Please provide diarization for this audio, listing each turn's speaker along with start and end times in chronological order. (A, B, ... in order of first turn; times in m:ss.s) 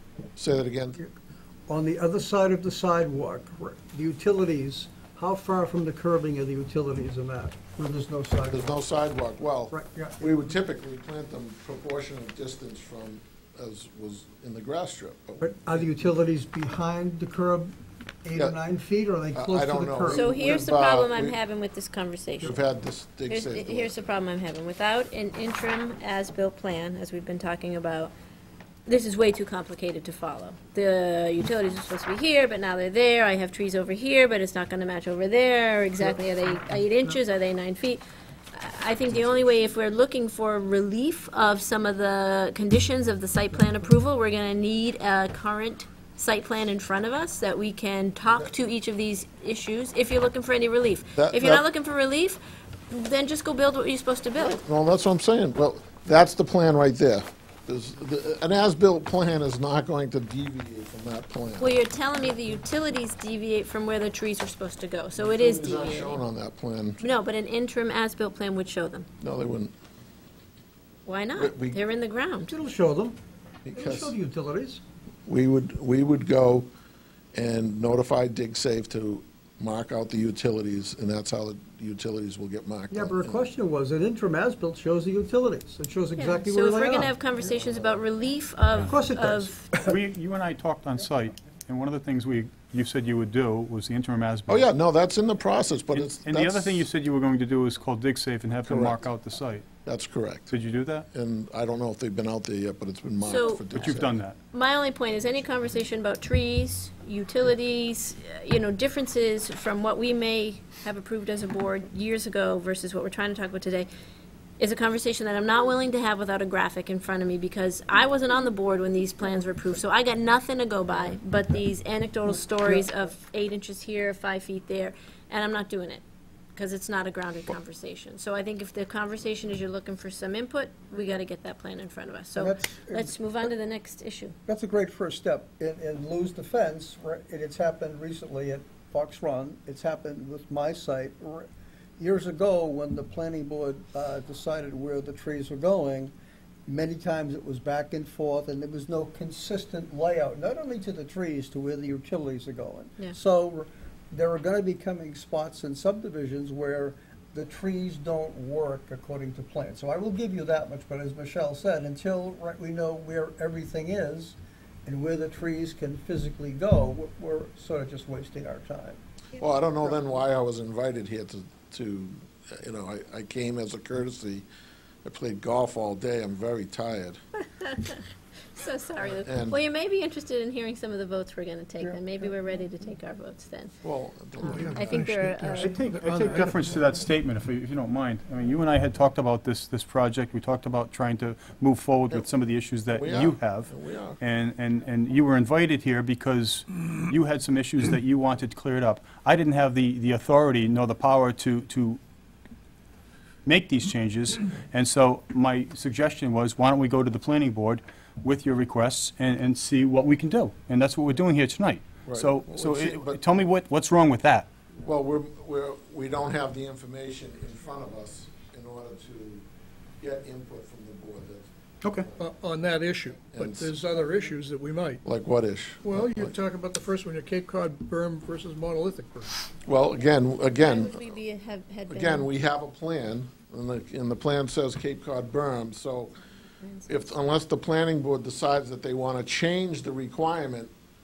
0:00.4-0:01.0 A
0:01.7-0:08.8 B
0:08.5-0:15.8 A
0:09.7-0:10.3 B
0:15.4-0:17.7 B
0:18.2-0:20.6 B
0:19.3-0:21.4 A
0:20.1-0:22.5 C
0:22.4-0:24.0 A
0:23.3-0:28.1 C
0:28.9-0:38.0 C
0:38.5-0:54.6 C
0:51.2-0:51.6 A
0:54.4-1:01.8 A
1:01.6-1:06.2 C
1:05.2-1:07.0 A
1:07.0-1:09.1 C
1:09.2-1:09.7 A
1:11.0-1:12.5 C
1:11.4-1:11.8 A
1:12.4-1:13.2 B
1:13.6-1:14.1 A
1:13.7-1:14.8 B
1:15.3-1:16.7 A
1:17.3-1:23.4 A
1:22.9-1:27.1 B
1:26.2-1:29.7 C
1:27.4-1:28.0 A
1:28.8-1:30.0 B
1:29.8-1:34.7 D
1:34.5-1:36.9 A
1:35.9-1:39.7 D
1:38.6-1:39.0 A
1:39.8-1:40.5 A
1:40.5-1:41.0 D
1:41.1-1:44.2 A
1:43.2-1:43.7 C
1:43.7-1:44.4 D
1:44.5-1:53.9 C
1:54.6-2:06.0 C
2:02.3-2:02.9 B
2:06.5-2:14.4 C
2:12.4-2:13.1 B
2:14.5-2:26.1 B
2:26.6-2:49.0 B
2:49.4-2:54.4 A
2:55.0-2:57.2 A
2:57.6-2:58.0 C
2:58.5-3:03.7 C
2:59.0-2:59.6 A
3:01.8-3:02.3 B
3:03.8-3:05.1 A
3:04.4-3:06.5 E
3:04.7-3:05.7 C
3:05.6-3:22.0 D
3:05.8-3:06.4 B
3:12.9-3:14.2 A
3:23.4-3:34.5 D
3:32.0-3:33.2 A
3:34.8-3:39.4 A
3:40.0-3:42.3 A
3:41.8-3:42.1 D
3:42.2-3:45.0 E
3:43.2-3:43.8 A
3:45.0-3:46.4 A
3:45.8-3:49.4 E
3:49.6-3:51.1 A
3:50.5-3:52.3 C
3:51.9-3:56.2 A
3:56.6-3:57.1 C
3:56.9-4:00.7 A